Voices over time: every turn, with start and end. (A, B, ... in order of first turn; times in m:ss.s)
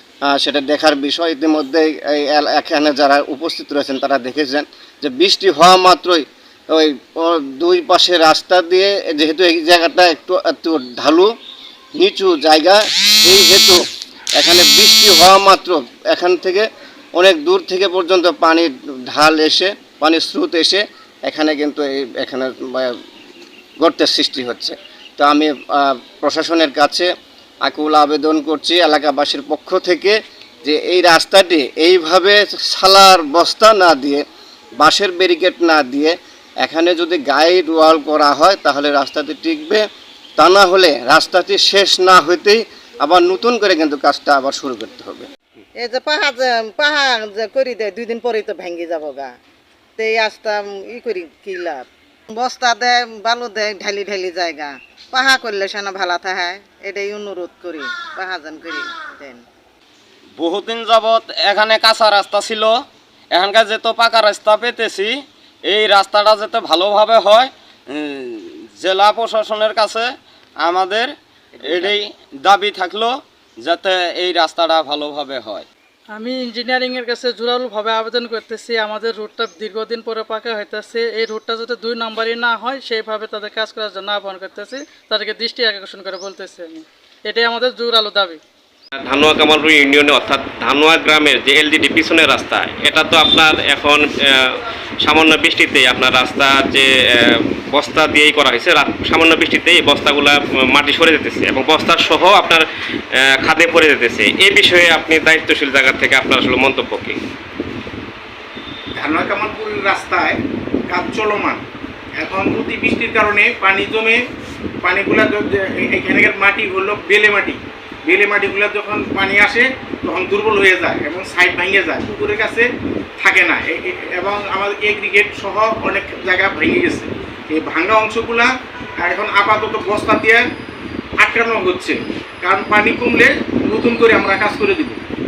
0:00.3-0:11.3 A
0:12.0-0:13.8 A
0:14.4-0:23.0 A
0:23.8-0:27.1 A
0:27.6-0:34.2 A
0:34.8-0:39.8 A
0:40.4-0:45.3 A
0:45.8-0:49.3 B
0:50.0-0:59.4 B
1:00.4-1:15.6 C
1:16.1-1:28.4 D
1:29.0-1:47.2 E
1:49.0-1:50.4 F
1:50.9-1:51.6 F
1:52.2-1:54.2 F
1:54.8-2:02.7 F
2:03.2-2:08.5 F
2:09.0-2:10.4 F
2:11.2-2:15.0 F